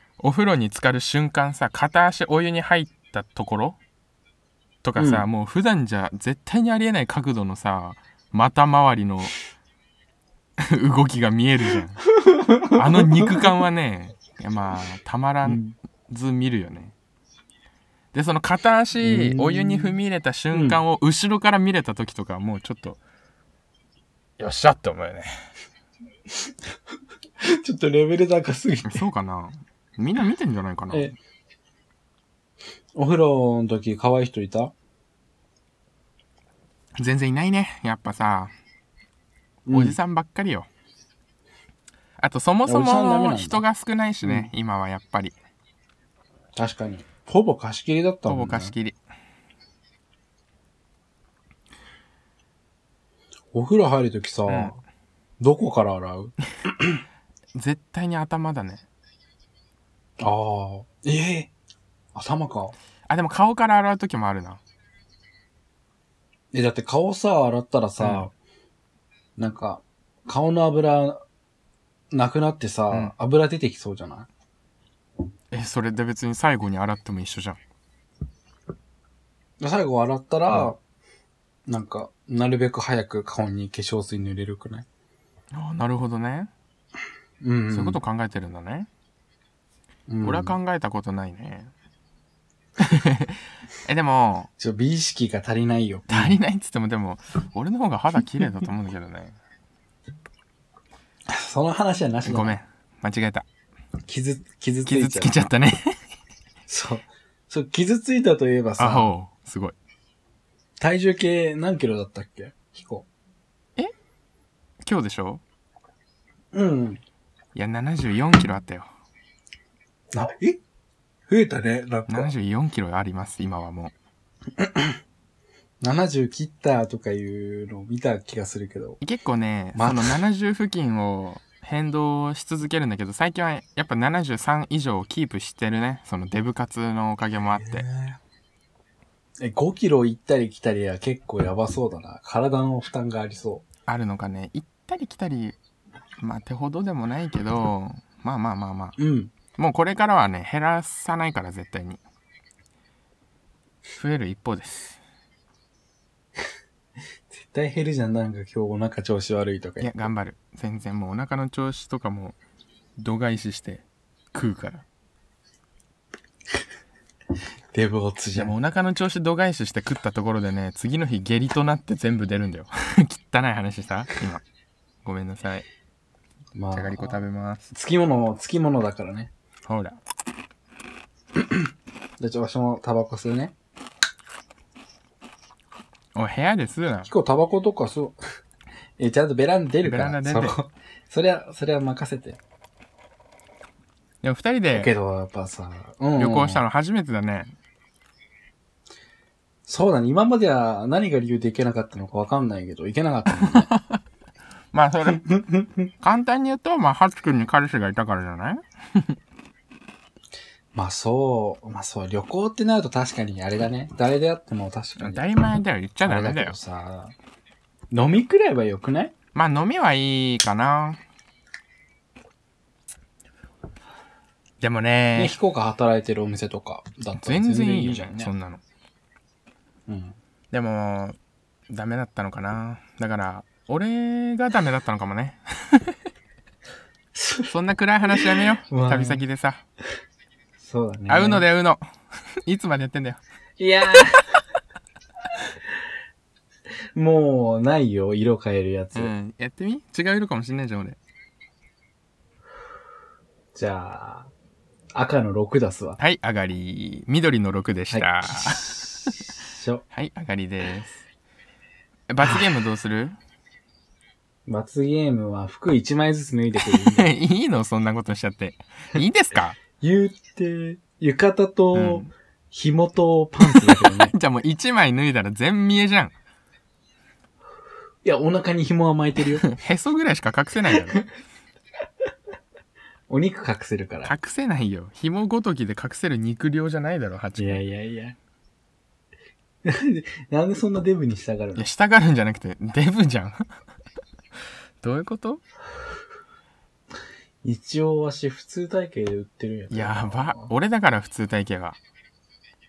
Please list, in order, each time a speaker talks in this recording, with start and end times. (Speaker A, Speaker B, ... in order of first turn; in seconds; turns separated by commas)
Speaker A: 0.2-3.8, Speaker A: 4.8-9.3, Speaker B: 5.0-5.3, Speaker A: 10.6-12.0, Speaker B: 12.1-13.5, Speaker A: 12.7-16.9, Speaker B: 15.4-15.8, Speaker A: 18.1-23.0, Speaker B: 19.0-19.9, Speaker B: 20.5-20.8, Speaker A: 24.4-25.4, Speaker B: 27.4-29.0, Speaker A: 28.9-31.1, Speaker B: 30.9-31.2, Speaker B: 33.0-34.7, Speaker A: 37.0-38.5, Speaker B: 39.7-40.0, Speaker A: 39.7-40.7, Speaker A: 42.2-45.4, Speaker B: 42.7-43.6, Speaker B: 44.2-44.5, Speaker B: 46.6-48.8, Speaker A: 48.3-49.0, Speaker B: 53.5-54.8, Speaker A: 54.5-54.7, Speaker B: 55.4-57.0, Speaker A: 57.5-58.9, Speaker B: 60.2-61.5, Speaker B: 62.1-62.8, Speaker A: 63.1-64.6, Speaker B: 66.5-68.3, Speaker A: 68.0-68.2, Speaker B: 69.4-71.2, Speaker B: 72.1-74.3, Speaker A: 75.5-77.6, Speaker B: 79.6-80.8, Speaker A: 80.5-80.8, Speaker B: 81.7-84.9, Speaker A: 85.5-86.5, Speaker B: 87.4-88.0, Speaker A: 87.7-88.9, Speaker B: 90.1-90.6, Speaker A: 90.2-91.7, Speaker A: 92.8-94.5, Speaker B: 94.6-96.4, Speaker A: 96.1-99.4, Speaker B: 101.3-102.6, Speaker A: 102.2-103.5, Speaker B: 104.1-105.4, Speaker A: 104.9-106.0, Speaker B: 106.7-109.1, Speaker A: 108.8-109.8, Speaker B: 110.8-113.1, Speaker A: 114.8-115.4, Speaker B: 116.5-117.0, Speaker A: 117.5-118.9, Speaker B: 120.1-120.6, Speaker B: 121.3-122.3, Speaker A: 122.1-123.9, Speaker B: 124.6-125.0, Speaker B: 125.8-129.0, Speaker A: 129.0-137.8, Speaker B: 129.8-130.2, Speaker B: 137.6-138.2, Speaker B: 139.4-143.7, Speaker A: 143.9-145.6, Speaker A: 146.2-149.0, Speaker B: 149.0-149.3, Speaker A: 149.6-152.0, Speaker A: 153.9-155.0, Speaker B: 157.3-160.1, Speaker A: 159.8-162.4, Speaker A: 163.0-164.8, Speaker B: 167.7-168.5, Speaker A: 168.3-174.4, Speaker A: 175.0-175.7, Speaker B: 176.6-177.2, Speaker A: 176.7-177.6, Speaker B: 177.7-179.3, Speaker A: 179.7-180.0, Speaker B: 181.4-181.7, Speaker B: 182.2-183.6, Speaker A: 186.2-187.1, Speaker B: 187.1-188.2, Speaker B: 189.0-192.4, Speaker A: 189.8-190.6, Speaker A: 194.2-194.9, Speaker B: 194.7-196.6, Speaker A: 196.2-197.5, Speaker B: 199.7-203.7, Speaker A: 203.4-204.0, Speaker A: 204.7-205.2, Speaker B: 205.2-205.9, Speaker A: 206.0-209.2, Speaker B: 210.7-215.2, Speaker A: 215.0-216.6, Speaker B: 216.0-217.1, Speaker B: 217.9-219.1, Speaker A: 219.3-221.0, Speaker A: 224.6-225.4, Speaker B: 225.2-228.3, Speaker A: 227.2-228.6, Speaker B: 229.9-230.2, Speaker A: 230.5-231.2, Speaker A: 231.7-236.0, Speaker B: 237.2-237.5, Speaker A: 237.5-239.6, Speaker B: 238.1-239.2, Speaker B: 240.6-241.5, Speaker A: 241.1-241.9, Speaker A: 242.4-243.2, Speaker B: 243.6-244.4, Speaker B: 246.9-249.1, Speaker A: 248.9-251.0, Speaker B: 253.6-254.3, Speaker B: 254.9-256.0, Speaker A: 256.0-259.3, Speaker B: 257.9-259.8, Speaker A: 259.9-261.0, Speaker A: 262.1-263.2, Speaker B: 264.5-267.1, Speaker A: 266.6-269.6, Speaker B: 269.8-274.1, Speaker A: 271.7-272.1, Speaker A: 273.5-276.1, Speaker B: 278.0-279.5, Speaker A: 279.4-281.0, Speaker B: 283.1-284.1, Speaker A: 284.0-287.6, Speaker B: 287.4-288.2, Speaker B: 289.6-291.7, Speaker A: 291.6-293.5, Speaker A: 294.8-295.4, Speaker B: 297.4-300.5, Speaker A: 299.7-301.8